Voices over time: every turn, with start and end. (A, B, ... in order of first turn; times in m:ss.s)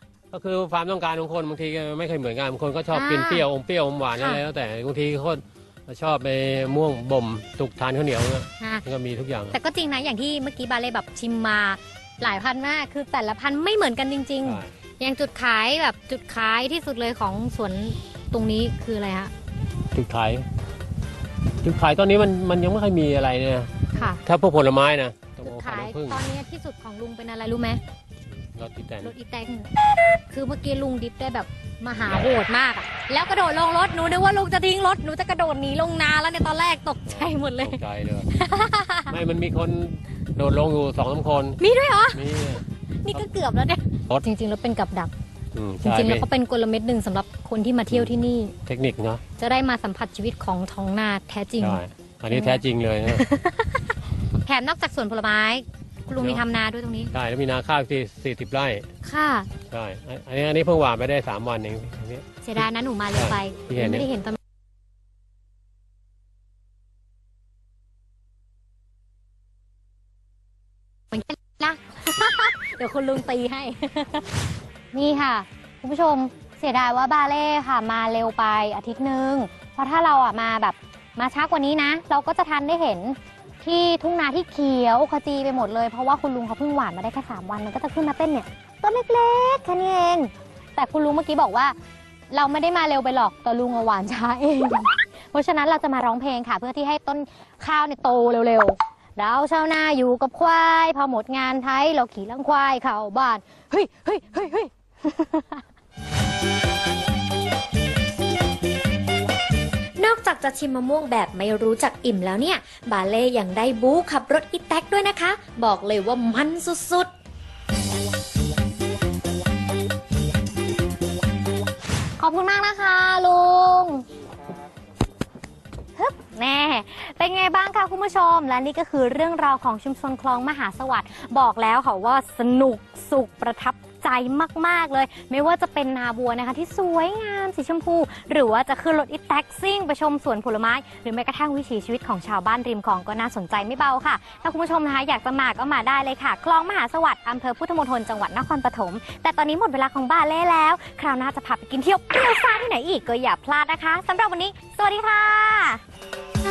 0:00.3-0:09.6 A
0:02.9-0:03.4 B
0:04.2-0:04.4 B
0:09.5-0:19.3 B
0:14.4-0:14.7 A
0:19.9-0:20.5 A
0:21.6-0:26.2 A
0:23.9-0:24.2 B
0:25.4-0:27.8 B
0:28.3-0:29.1 A
0:29.0-0:29.7 B
0:30.3-0:39.2 B
0:37.1-0:38.3 A
0:39.1-0:43.2 A
0:41.6-0:42.2 B
0:43.0-0:45.1 B
0:45.5-0:46.3 A
0:45.8-0:48.5 B
0:48.6-0:49.2 A
0:49.4-0:53.9 B
0:51.6-0:53.2 A
0:54.4-0:57.1 B
0:56.2-0:56.4 A
0:57.1-0:58.8 A
0:59.0-0:59.5 B
0:59.7-1:02.3 A
1:02.4-1:04.4 B
1:03.1-1:04.1 A
1:11.1-1:14.3 B
1:14.9-1:31.7 B
1:32.3-1:45.6 B
1:50.0-1:57.1 C
2:02.2-2:04.0 B
2:06.0-2:35.8 B